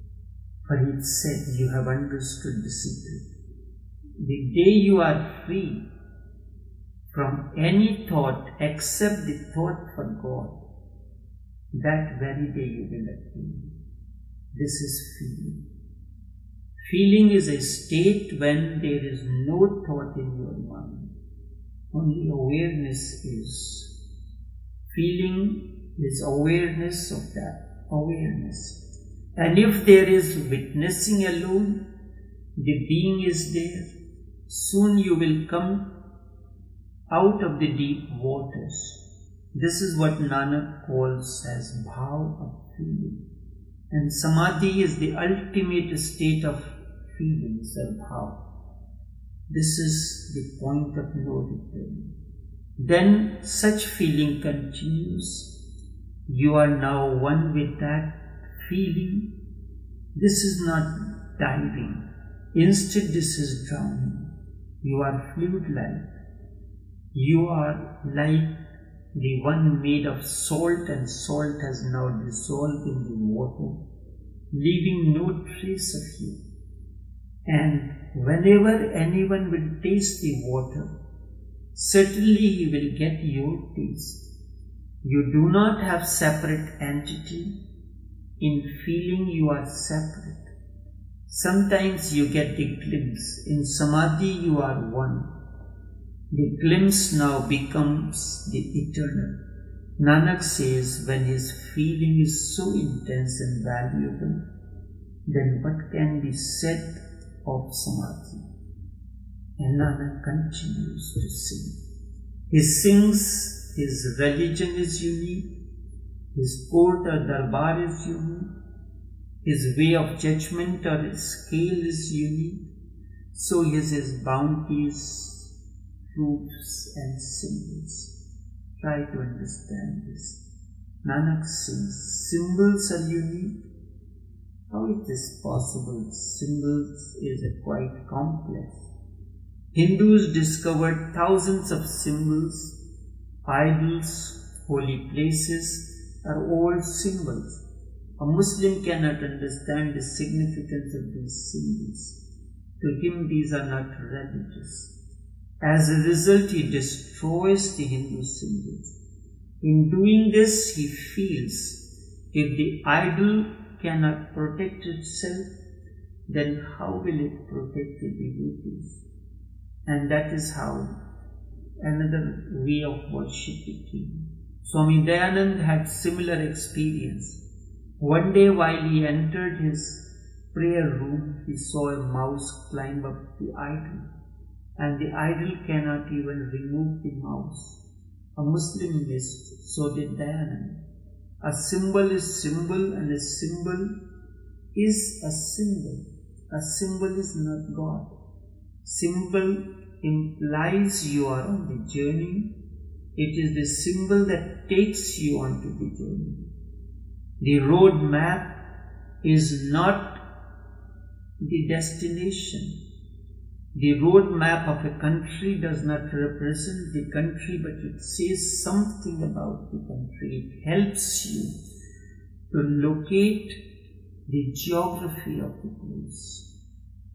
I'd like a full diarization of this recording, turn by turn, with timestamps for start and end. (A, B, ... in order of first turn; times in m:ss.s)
0:00.6-0:03.2 A
0:04.2-0:05.8 A
0:07.1-0:10.6 A
0:11.7-0:13.7 A
0:14.5-0:15.6 A
0:16.8-0:21.1 A
0:21.9-0:23.9 A
0:24.9-0:28.8 A
0:29.4-0:31.8 A
0:32.6-0:33.9 A
0:34.5-0:35.9 A
0:37.1-0:39.0 A
0:39.5-0:43.2 A
0:43.9-0:48.4 A
0:49.5-0:52.1 A
0:52.8-0:55.5 A
0:56.3-0:59.3 A
1:00.1-1:06.0 A
1:07.1-1:08.6 A
1:09.1-1:13.8 A
1:14.5-1:16.4 A
1:17.5-1:20.9 A
1:21.7-1:24.2 A
1:25.0-1:27.6 A
1:28.4-1:30.5 A
1:31.3-1:35.3 A
1:36.3-1:39.4 A
1:40.0-1:44.4 A
1:45.2-1:48.4 A
1:49.6-1:51.7 A
1:52.5-1:55.5 A
1:56.3-1:58.5 A
1:59.4-2:02.7 A
2:03.3-2:05.5 A
2:06.1-2:08.1 A
2:08.8-2:10.4 A
2:11.0-2:13.6 A
2:14.7-2:18.9 A
2:19.7-2:22.8 A
2:23.4-2:27.6 A
2:28.2-2:32.2 A
2:32.8-2:34.9 A
2:35.6-2:38.9 A
2:39.6-2:41.8 A
2:42.3-2:45.5 A
2:46.3-2:49.0 A
2:49.9-2:50.9 A
2:51.8-2:57.4 A
2:58.0-3:04.1 A
3:04.8-3:07.8 A
3:08.4-3:10.8 A
3:11.4-3:13.9 A
3:14.7-3:18.1 A
3:18.8-3:22.5 A
3:23.2-3:26.5 A
3:27.4-3:28.5 A
3:29.2-3:30.2 A
3:31.4-3:32.7 A
3:33.7-3:41.5 A
3:42.5-3:43.6 A
3:44.3-3:46.5 A